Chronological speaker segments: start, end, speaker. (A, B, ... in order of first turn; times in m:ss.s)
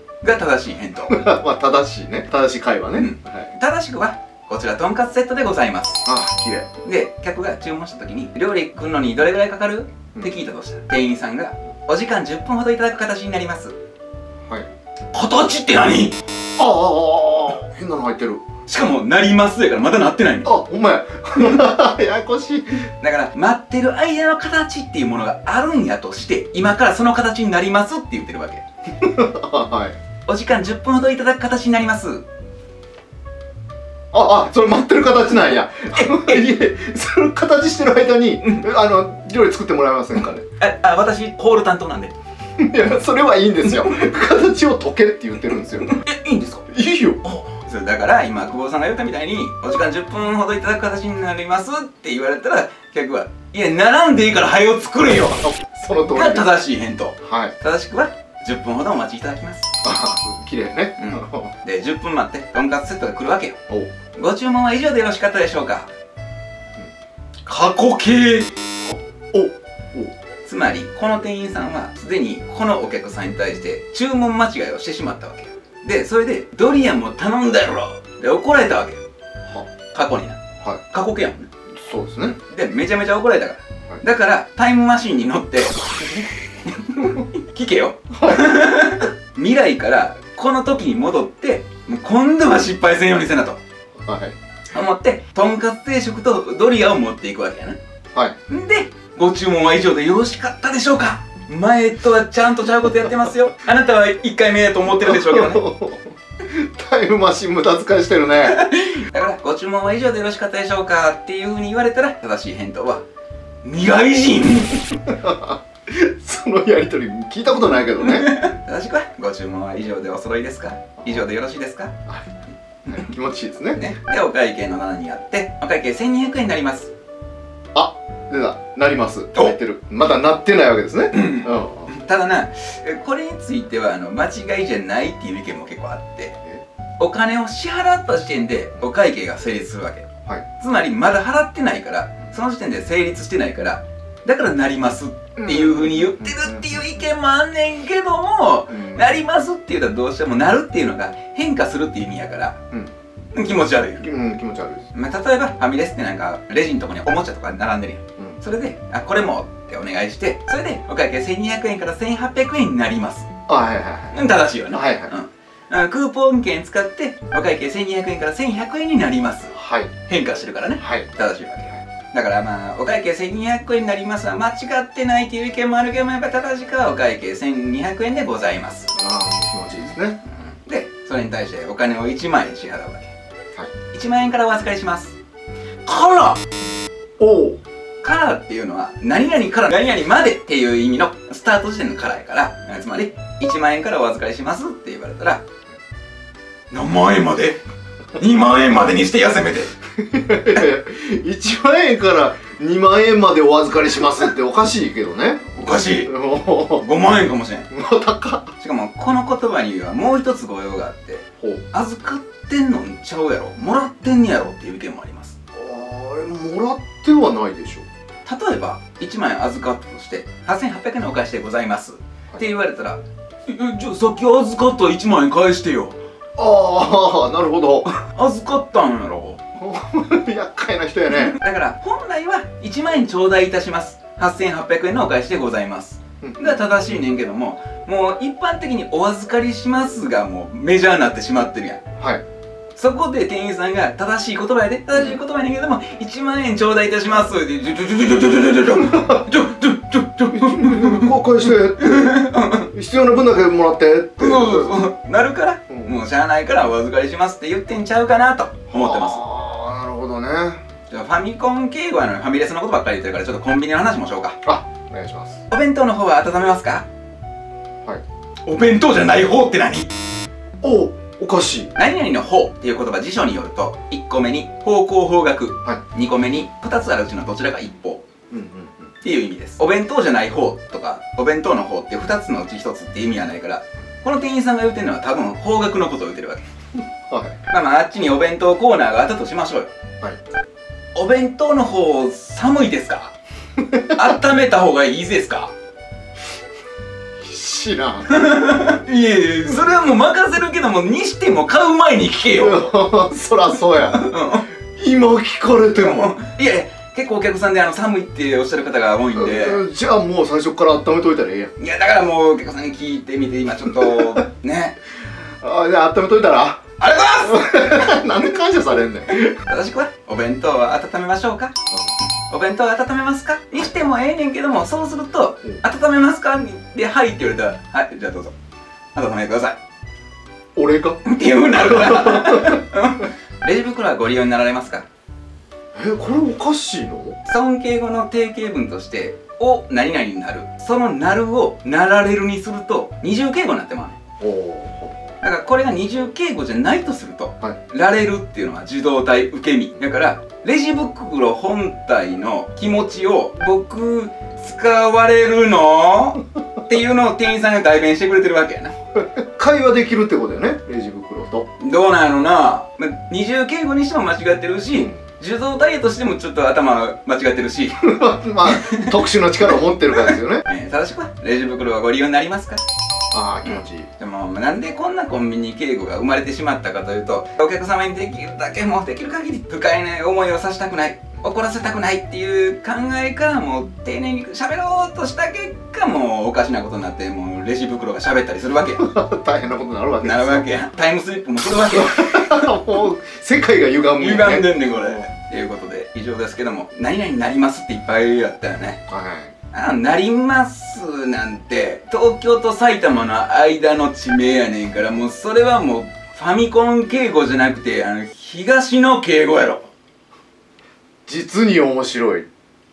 0:00.2-0:01.3 A
0:01.1-0:03.5 B
0:03.0-0:06.1 A
0:06.0-0:06.7 B
0:06.7-0:13.8 A
0:15.1-0:16.2 A
0:16.6-0:18.5 B
0:18.7-0:20.5 A
0:20.4-0:22.8 B
0:21.3-0:21.6 A
0:23.0-0:28.6 A
0:29.0-0:30.0 B
0:30.3-0:32.2 A
0:34.1-0:40.4 B
0:35.9-0:36.5 A
0:38.4-0:38.7 A
0:40.6-0:42.2 A
0:42.6-0:46.0 B
0:45.8-0:46.6 A
0:46.7-0:47.4 B
0:47.3-0:55.5 A
0:55.3-0:56.5 B
0:56.1-0:59.7 A
0:57.2-0:57.5 B
0:59.8-1:01.5 B
1:01.0-1:03.6 A
1:04.1-1:05.9 A
1:07.5-1:08.6 A
1:08.9-1:10.1 B
1:10.5-1:19.0 A
1:19.9-1:21.5 A
1:21.8-1:22.4 B
1:22.4-1:33.6 A
1:28.1-1:28.6 B
1:34.0-1:34.4 B
1:34.7-1:37.8 A
1:38.5-1:45.7 A
1:44.9-1:48.6 B
1:48.4-1:53.0 A
1:53.6-1:55.1 A
1:55.2-1:58.3 B
1:58.0-2:02.0 A
2:02.9-2:03.1 A
2:02.9-2:03.9 B
2:03.8-2:06.9 A
2:07.8-2:11.9 B
2:11.1-2:16.4 A
2:17.0-2:32.6 A
2:25.4-2:26.8 B
2:28.7-2:29.1 B
2:33.4-2:34.1 A
2:34.0-2:34.9 B
2:34.9-2:43.3 A
2:43.5-2:44.2 B
2:44.1-2:58.9 A
2:44.7-2:45.1 B
2:49.5-2:49.9 B
2:50.8-2:51.1 B
2:59.0-3:00.2 B
3:00.3-3:03.2 A
3:03.9-3:05.2 A
3:05.9-3:06.4 A
3:07.2-3:07.6 B
3:08.0-3:15.4 A
3:16.7-3:17.6 A
3:18.2-3:19.7 A
3:20.0-3:25.5 B
3:25.5-3:26.1 A
3:26.0-3:26.9 B
3:26.7-3:27.7 A
3:27.7-3:28.5 B
3:28.6-3:35.4 A
3:35.5-3:37.9 B
3:38.3-3:46.0 A
3:46.4-3:47.9 B
3:47.9-3:49.4 A
3:49.6-3:51.4 B
3:51.1-4:01.8 A
3:56.2-3:56.6 B
4:02.8-4:12.7 A
4:04.9-4:05.2 B
4:08.9-4:09.3 B
4:10.3-4:14.8 B
4:14.2-4:19.2 A
4:15.7-4:16.0 B
4:18.7-4:20.6 B
4:20.9-4:24.4 A
4:24.4-4:25.4 B
4:25.5-4:26.9 A
4:28.5-4:29.9 A
4:30.6-4:31.7 B
4:31.8-4:38.0 A
4:38.3-4:38.9 B
4:39.0-4:46.5 A
4:47.1-4:47.4 B
4:47.5-4:49.7 A
4:51.0-4:53.2 A
4:53.6-4:54.1 B
4:54.0-4:55.5 A
4:57.2-4:58.5 B
4:58.1-5:02.9 A
5:02.4-5:04.1 B
5:03.8-5:04.5 A
5:04.8-5:06.2 B
5:05.8-5:09.7 A
5:09.2-5:11.5 B
5:11.6-5:14.8 A
5:13.8-5:14.2 B
5:15.4-5:19.4 B
5:16.8-5:18.0 A
5:19.3-5:21.5 A
5:22.3-5:28.3 A
5:29.0-5:29.6 A
5:30.6-5:31.0 B
5:31.0-5:34.9 A
5:31.5-5:32.6 B
5:35.8-5:37.2 B
5:37.2-5:44.0 A
5:44.2-5:45.0 B
5:45.2-5:58.7 A
5:59.0-6:01.5 B
6:01.6-6:09.0 A
6:04.7-6:05.0 B
6:07.8-6:10.4 B
6:09.5-6:12.6 A
6:13.1-6:13.9 B
6:13.4-6:28.9 A
6:28.8-6:30.5 B
6:30.0-6:32.5 A
6:31.7-6:35.1 B
6:34.0-6:38.8 A
6:38.9-6:39.3 B
6:39.5-6:49.7 A
6:51.1-6:52.3 B